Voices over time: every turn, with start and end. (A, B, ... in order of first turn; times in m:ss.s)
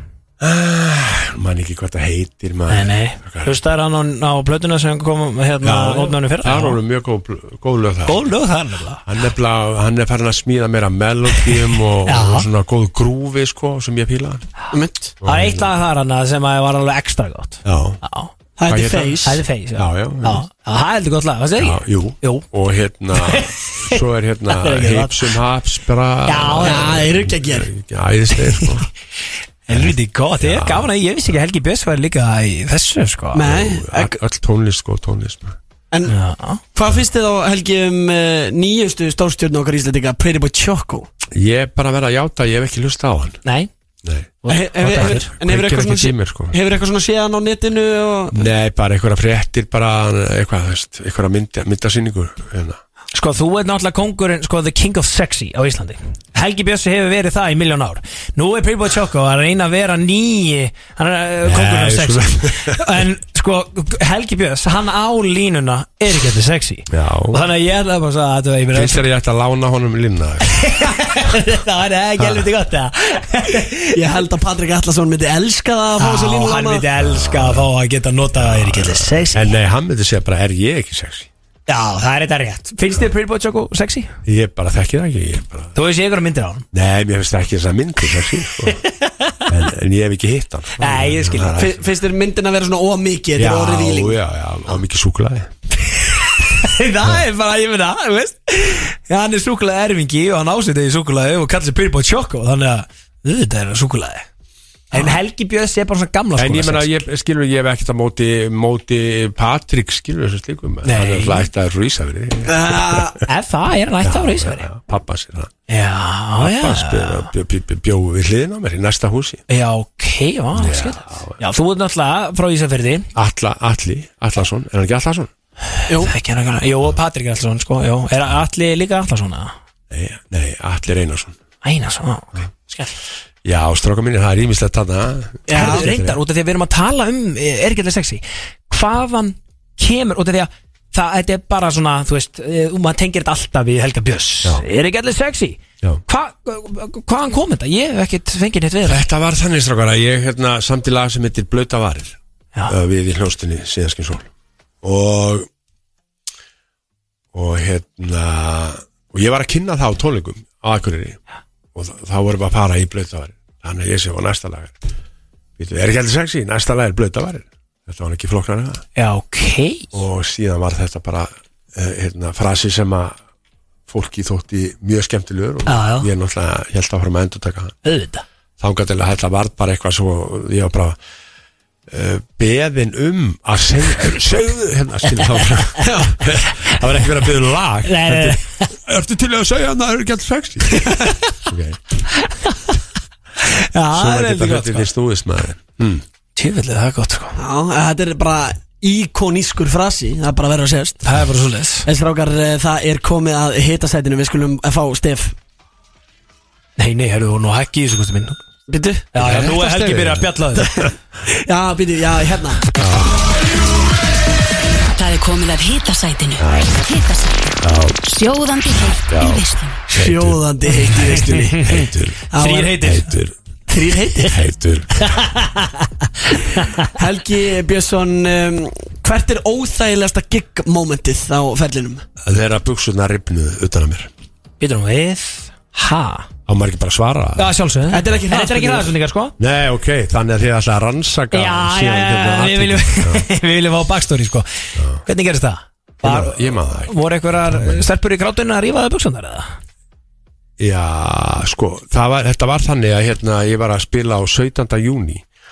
0:00.4-0:03.5 A
0:02.7-0:06.8 B
0:05.6-0:08.3 A
0:08.1-0:09.0 B
0:09.0-0:14.5 A
0:12.1-0:12.5 B
0:14.7-0:15.1 C
0:15.2-0:15.7 A
0:15.2-0:18.3 B
0:17.6-0:18.0 A
0:18.6-0:19.4 C
0:18.7-0:19.2 A
0:19.2-0:22.5 B
0:19.7-0:20.4 A
0:21.6-0:28.9 A
0:23.2-0:25.4 B
0:26.2-0:27.0 B
0:26.6-0:27.7 C
0:29.7-0:33.4 B
0:29.7-0:31.3 A
0:33.3-0:34.2 C
0:33.4-0:35.6 A
0:36.1-0:36.6 B
0:36.7-0:41.1 C
0:41.3-0:43.4 A
0:43.4-0:43.7 B
0:44.0-0:46.6 A
0:44.4-0:45.3 B
0:44.5-0:48.5 C
0:48.3-0:52.8 A
0:53.1-1:09.0 B
1:01.4-1:03.0 A
1:06.9-1:07.4 A
1:08.7-1:10.7 A
1:10.5-1:14.0 B
1:12.2-1:12.4 A
1:13.9-1:16.8 C
1:16.0-1:19.5 B
1:16.9-1:17.7 A
1:18.4-1:21.3 A
1:21.7-1:24.1 B
1:24.2-1:25.8 A
1:25.7-1:26.6 B
1:26.7-1:28.8 A
1:28.9-1:29.4 B
1:29.5-1:31.8 A
1:30.8-1:31.6 B
1:31.5-1:34.2 C
1:33.4-1:35.5 A
1:36.6-1:44.2 B
1:44.9-1:46.9 B
1:46.4-1:53.2 A
1:50.8-1:51.5 B
1:52.4-1:53.2 C
1:53.3-1:54.7 B
1:54.0-1:55.5 A
1:55.7-1:57.3 B
1:56.4-1:59.4 A
1:59.5-2:03.1 B
2:00.5-2:01.4 A
2:03.1-2:05.3 A
2:06.0-2:09.5 B
2:09.9-2:11.4 A
2:11.6-2:12.9 B
2:13.4-2:16.2 A
2:15.5-2:15.9 C
2:15.5-2:29.0 B
2:28.8-2:34.3 A
2:34.8-2:35.5 A
2:37.3-2:41.2 A
2:41.7-2:44.8 A
2:45.6-2:48.8 A
2:49.0-2:49.9 B
2:49.9-2:53.2 A
2:53.9-2:57.8 A
2:55.6-2:56.1 B
2:57.8-2:58.2 B
2:58.6-3:01.0 A
3:01.9-3:11.8 A
3:07.8-3:08.7 B
3:10.8-3:11.3 B
3:13.7-3:14.9 B
3:13.9-3:16.0 A
3:16.4-3:17.4 B
3:17.4-3:21.0 C
3:21.0-3:21.9 B
3:21.8-3:25.3 C
3:26.8-3:28.4 B
3:28.7-3:29.4 C
3:29.1-3:30.7 B
3:29.2-3:30.8 A
3:31.3-3:32.7 C
3:32.8-3:33.3 A
3:34.9-3:39.8 D
3:36.4-3:36.8 A
3:37.6-3:38.0 A
3:39.0-3:43.3 A
3:39.9-3:42.7 C
3:42.4-3:43.1 B
3:43.7-3:44.4 C
3:44.2-3:45.3 A
3:45.2-3:46.9 B
3:46.9-3:52.0 C
3:52.2-3:54.1 A
3:54.6-3:56.3 B
3:56.4-3:57.5 A
3:57.4-3:59.3 B
3:57.9-3:58.9 C
3:59.4-4:03.3 A
4:01.3-4:09.6 B
4:04.8-4:05.0 A
4:06.0-4:07.0 A
4:07.5-4:07.8 A
4:10.6-4:15.3 A